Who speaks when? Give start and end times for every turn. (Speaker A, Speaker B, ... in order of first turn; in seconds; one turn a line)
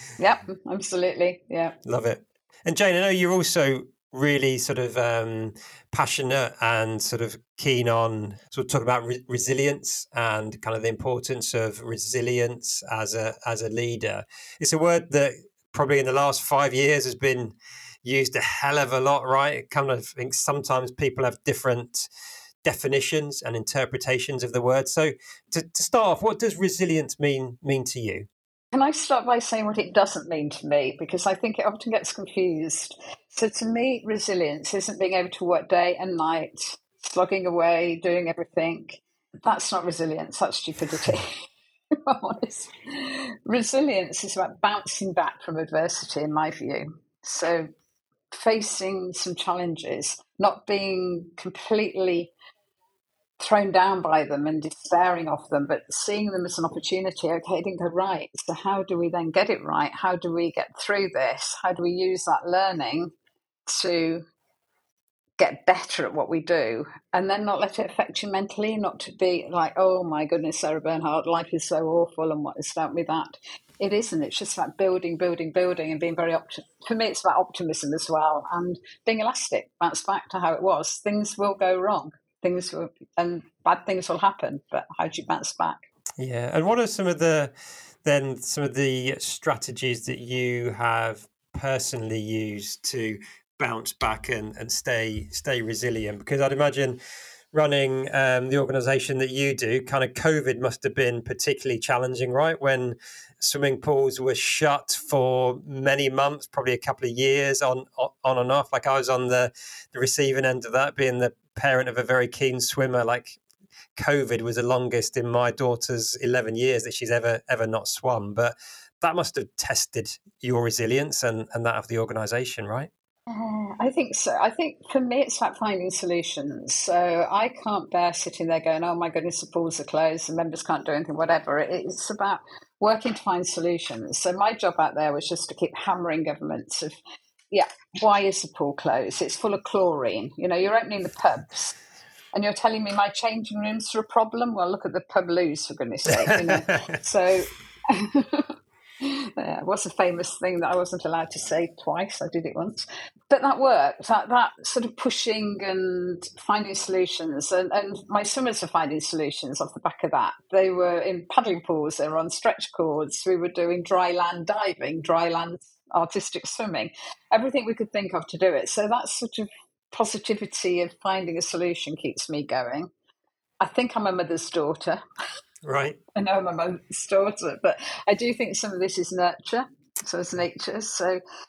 Speaker A: 0.2-1.7
Speaker B: 1.8-22.1
Speaker B: 22.6-28.3
Speaker A: 28.7-41.3
Speaker A: 42.0-47.7
Speaker A: 48.3-52.3
Speaker A: 53.4-63.1
Speaker A: 63.6-64.2
Speaker A: 65.4-85.8
Speaker B: 86.2-87.5
Speaker B: 88.0-97.0
Speaker B: 97.5-113.4
Speaker B: 114.0-122.9
Speaker A: 123.3-136.9
Speaker A: 137.5-141.8
Speaker A: 142.3-172.9
Speaker B: 146.2-146.9
Speaker A: 173.6-175.0
Speaker B: 175.6-176.0
Speaker A: 176.1-181.2